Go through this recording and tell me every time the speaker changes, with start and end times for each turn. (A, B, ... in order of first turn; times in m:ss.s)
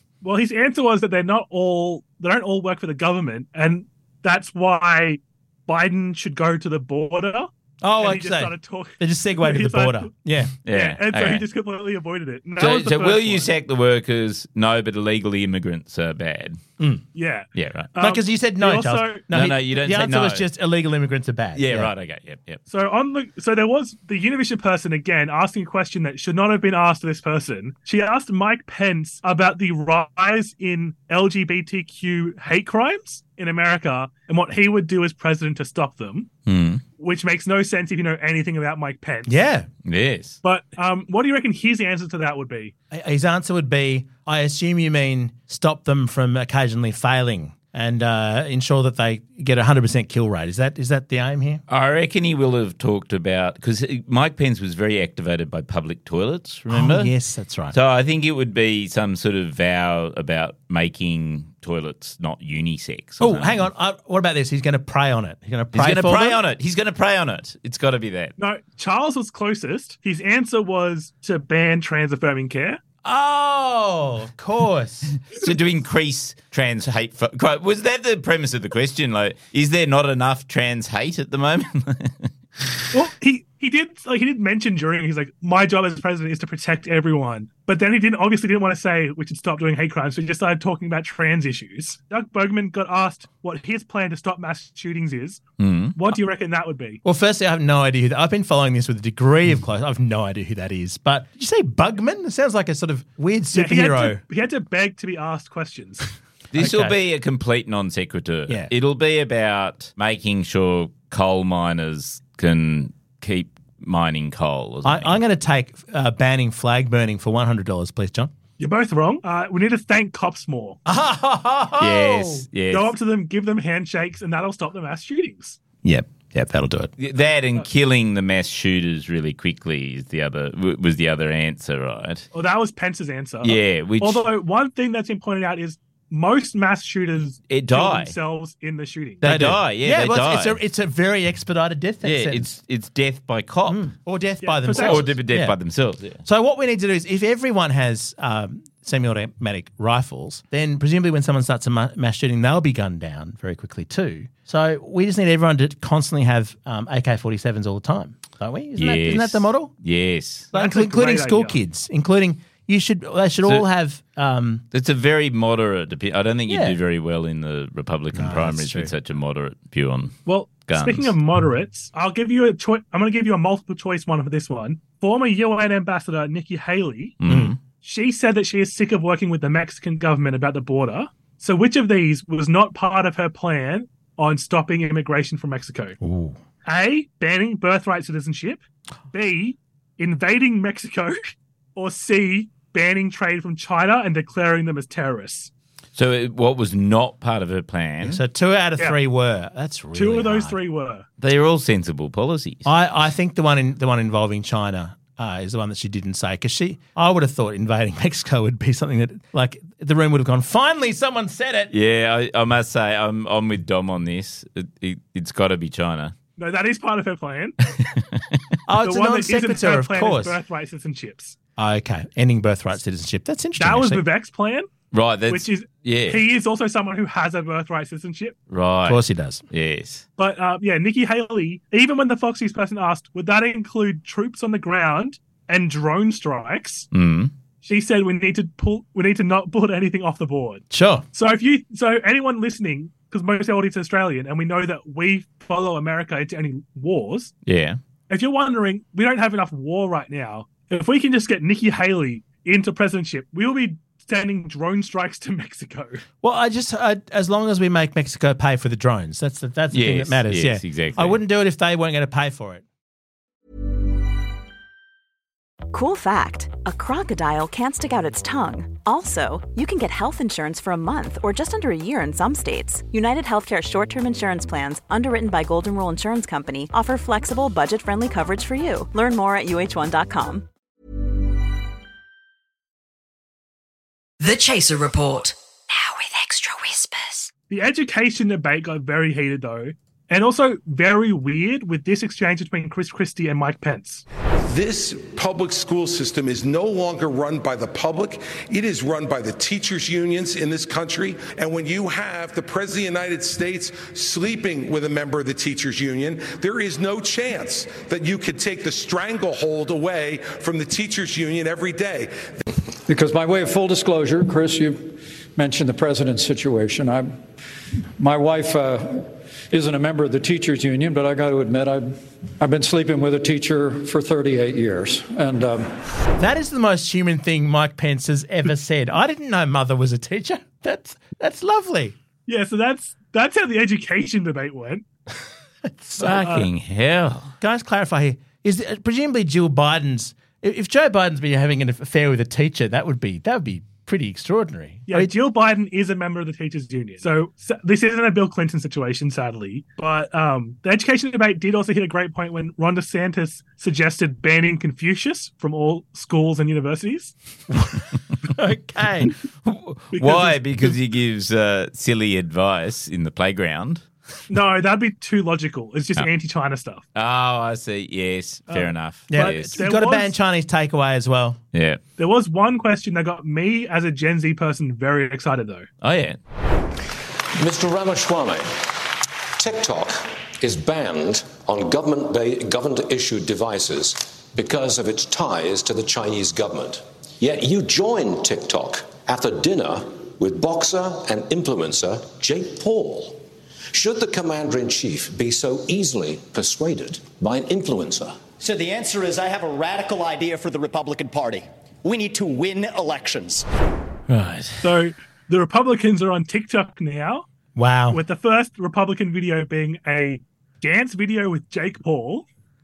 0:00.2-0:10.1 A
0:07.8-0:10.6 B
0:10.6-0:11.4 C
0:10.7-0:13.5 A
0:12.6-0:16.6 C
0:17.1-0:19.2 A
0:17.6-0:17.9 C
0:18.0-0:21.9 B
0:19.3-0:20.5 C
0:21.5-0:22.6 C
0:22.7-0:36.3 A
0:36.5-0:36.8 C
0:37.0-0:39.4 A
0:39.3-0:39.7 B
0:39.8-0:40.4 C
0:40.4-0:42.7 A
0:42.9-0:51.6 B
0:51.7-0:57.1 C
0:56.7-0:57.7 B
0:57.7-1:03.6 C
1:03.2-1:06.4 B
1:05.7-1:08.3 C
1:08.4-1:12.8 A
1:13.0-1:15.1 B
1:15.2-1:22.3 C
1:22.9-1:35.4 A
1:35.6-1:36.0 C
1:36.0-1:37.0 A
1:37.0-1:44.2 B
1:43.5-1:46.1 A
1:46.5-1:55.2 C
1:46.6-1:47.0 B
1:54.8-1:58.3 B
1:58.6-2:00.8 A
2:00.9-2:02.4 B
2:01.8-2:02.9 C
2:02.7-2:05.6 A
2:05.8-2:06.9 B
2:07.0-2:12.2 C
2:12.3-2:19.3 A
2:13.4-2:14.2 C
2:17.5-2:18.1 C
2:19.2-2:20.6 C
2:19.2-2:22.5 B
2:22.0-2:23.9 C
2:23.7-2:25.6 B
2:24.4-2:25.1 A
2:24.7-2:26.2 C
2:26.2-2:39.7 B
2:38.8-2:40.5 C
2:40.5-2:41.6 A
2:40.5-2:44.6 B
2:44.7-2:51.1 C
2:46.5-2:46.8 B
2:48.1-2:48.9 B
2:50.2-2:57.2 A
2:57.2-2:57.6 C
2:57.3-2:57.5 B
2:57.8-3:06.0 A
3:06.0-3:06.4 B
3:06.6-3:15.5 A
3:15.9-3:18.2 C
3:18.0-3:20.6 B
3:19.9-3:21.0 A
3:21.2-3:22.6 C
3:22.6-3:31.7 B
3:31.7-3:36.1 C
3:36.4-3:37.5 A
3:38.7-3:40.4 B
3:38.8-3:41.4 A
3:41.6-3:44.0 B
3:43.6-3:44.7 A
3:44.9-3:46.2 C
3:45.3-3:48.4 A
3:48.5-3:50.0 C
3:48.8-3:49.4 B
3:50.2-3:56.9 A
3:56.9-3:57.3 C
3:57.6-4:07.3 A
4:00.7-4:01.0 B
4:07.4-4:07.8 C
4:08.1-4:16.0 A
4:16.2-4:22.6 B
4:19.7-4:21.2 C
4:25.7-4:40.4 D
4:44.2-4:47.3 E
4:47.5-4:54.0 A
4:54.4-5:12.3 F
5:12.8-5:17.1 G
5:18.0-5:25.7 G
5:26.2-5:31.9 B
5:32.3-5:34.8 A
5:35.7-5:36.1 B
5:36.0-5:37.3 C
5:36.1-5:36.5 A
5:37.4-5:45.1 B
5:44.9-5:57.1 A
5:57.5-5:59.1 B
5:59.4-6:03.8 C
5:59.9-6:00.4 A
6:04.3-6:06.8 A
6:06.9-6:09.6 C
6:08.5-6:10.1 A
6:09.1-6:11.4 B
6:11.5-6:11.8 C
6:12.0-6:15.6 A
6:15.8-6:16.2 C
6:17.4-6:18.8 H
6:19.4-6:38.2 H
6:38.6-6:43.4 I
6:44.1-6:44.6 C
6:44.6-6:47.2 A
6:47.6-6:48.0 B
6:47.9-6:52.2 A